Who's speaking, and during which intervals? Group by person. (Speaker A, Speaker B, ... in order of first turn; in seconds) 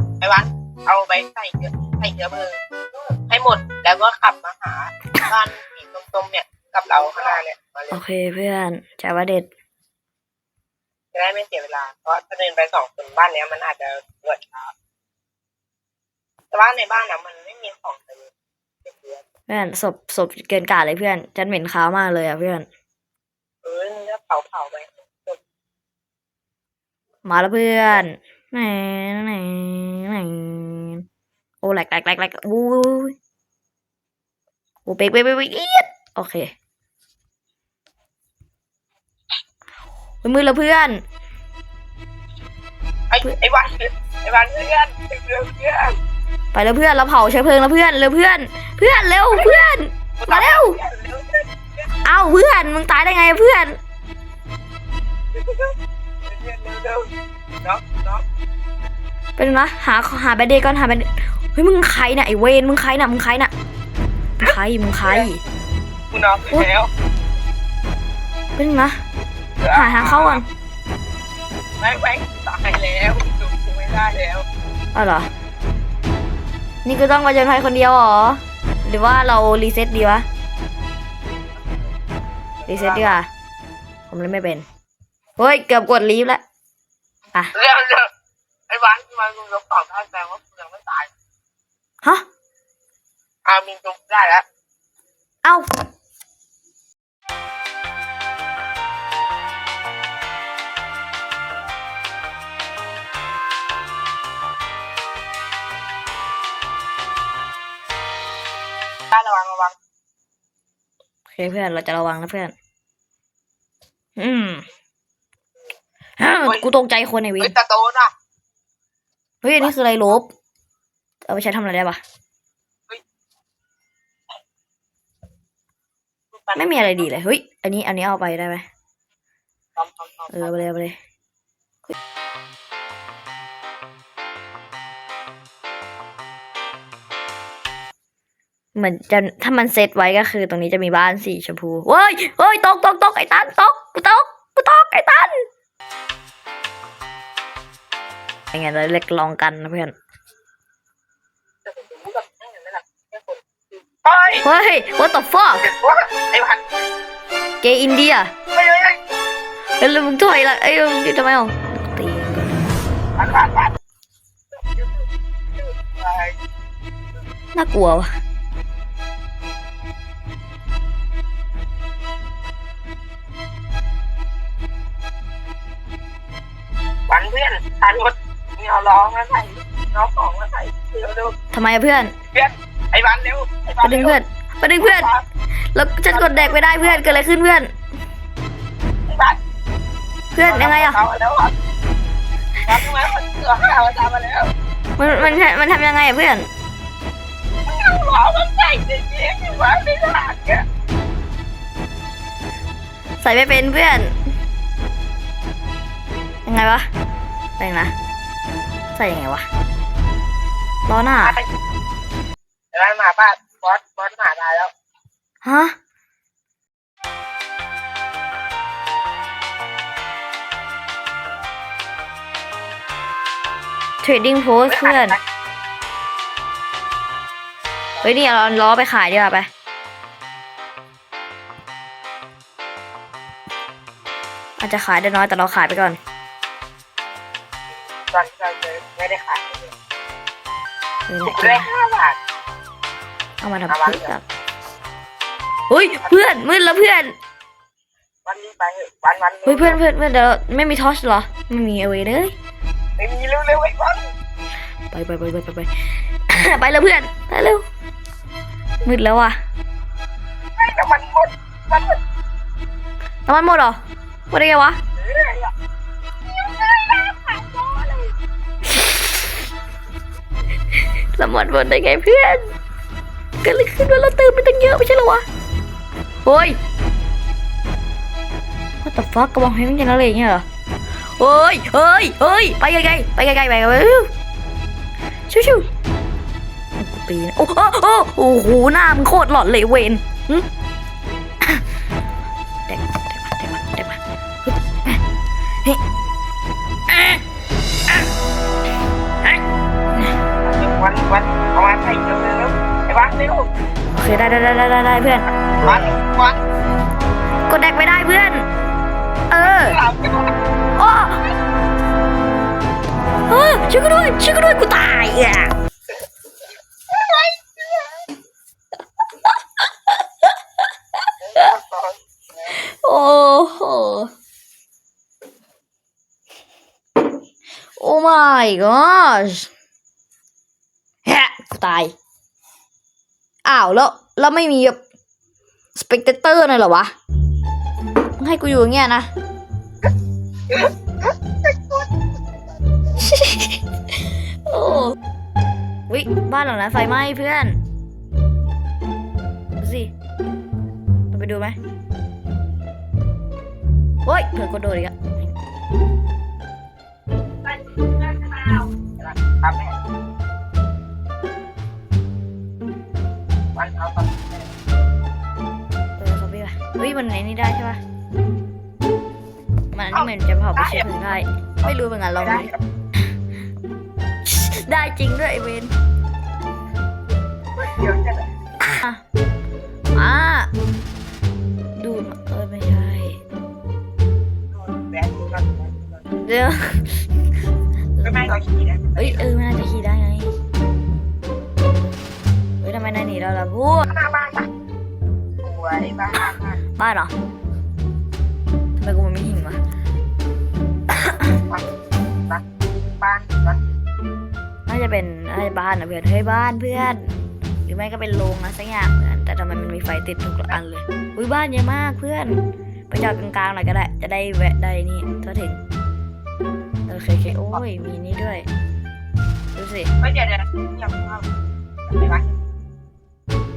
Speaker A: 0.2-8.0, 11.1-14.7, 16.5-18.3, 18.9-19.2, 23.6-25.4, 43.1-46.0, 49.4-49.6, 50.2-51.9, 55.4-57.1, 57.6-58.2, 65.0-65.3, 66.1-66.9, 69.6-70.4, 71.8-74.5, 82.6-83.2, 87.5-88.1, 88.7-91.1, 93.5-94.4, 109.1-109.8, 116.4-116.7, 117.4-118.1, 126.3-127.1, 129.8-130.7, 151.6-154.5, 155.6-156.7, 158.5-159.0, 163.2-163.8, 164.5-165.1, 165.6-166.4, 177.1-181.3, 182.3-184.2, 184.8-185.2, 186.1-187.2, 189.1-189.4, 190.4-191.6, 192.7-195.4, 197.7-200.7, 211.2-211.5, 212.7-214.7, 224.7-225.2, 228.0-228.5, 238.0-239.7, 241.2-242.2, 243.7-244.1, 248.2-249.8, 253.0-254.1, 260.6-262.0, 265.0-265.5, 266.3-268.1, 300.4-303.5, 305.6-306.4, 309.4-310.3, 316.9-318.1, 321.2-322.6, 340.5-342.0, 342.5-343.1, 359.0-359.8, 363.6-364.9, 369.9-370.9, 371.6-372.6, 377.6-378.3, 384.5-386.1, 388.0-389.3, 393.9-394.5, 395.4-396.6, 403.0-403.6, 417.3-417.6, 420.0-421.3, 421.9-422.4
Speaker B: 7.9-9.5, 19.5-22.7, 27.2-31.1, 31.6-33.2, 34.9-36.5, 40.2-41.0, 46.5-50.8, 52.0-53.8, 59.4-63.5, 64.4-65.4, 68.6-69.0, 69.7-70.5, 74.9-75.3, 76.8-80.3, 82.7-83.3, 84.1-84.7, 85.4-86.4, 111.3-112.5, 114.2-114.7, 116.2-117.5, 119.4-120.3, 121.3-122.0, 126.5-128.7, 130.3-131.0, 138.8-145.4, 148.5-149.9, 154.4-155.7, 157.6-158.3, 159.8-162.6, 167.5-168.1, 181.5-182.1, 183.8-185.1, 185.7-187.7, 190.3-191.0, 195.0-196.5, 203.2-204.2, 206.5-206.9, 207.6-207.9, 208.9-209.5, 210.9-211.4, 215.4-215.8, 224.0-225.2, 228.0-229.5, 234.6-236.0, 241.1-241.7, 243.4-244.2, 245.7-247.2, 249.5-252.3, 254.9-257.6, 258.8-259.4, 263.3-263.8, 264.3-264.8, 268.7-269.1, 271.1-272.5, 273.4-275.2, 276.2-276.6, 278.8-280.4, 281.2-284.1, 285.3-285.7, 286.8-290.5, 292.7-295.0, 296.9-297.2, 303.9-305.3, 307.5-308.5, 309.3-309.8, 310.8-311.2, 313.3-315.5, 322.5-324.1, 327.8-329.5, 331.1-331.9, 333.4-334.8, 335.8-336.9, 338.2-339.1, 343.0-343.6, 344.4-345.0, 345.9-347.6, 349.6-349.9, 351.1-351.6, 354.1-355.3, 366.0-367.8, 369.7-372.5, 374.2-375.7, 378.6-379.0, 379.9-380.5, 381.8-383.2, 386.2-387.1, 388.0-388.4, 389.0-390.3, 392.6-393.9, 396.8-397.1, 398.8-399.6, 400.9-401.2, 404.7-407.1, 407.7-415.6, 416.9-418.5, 419.6-419.9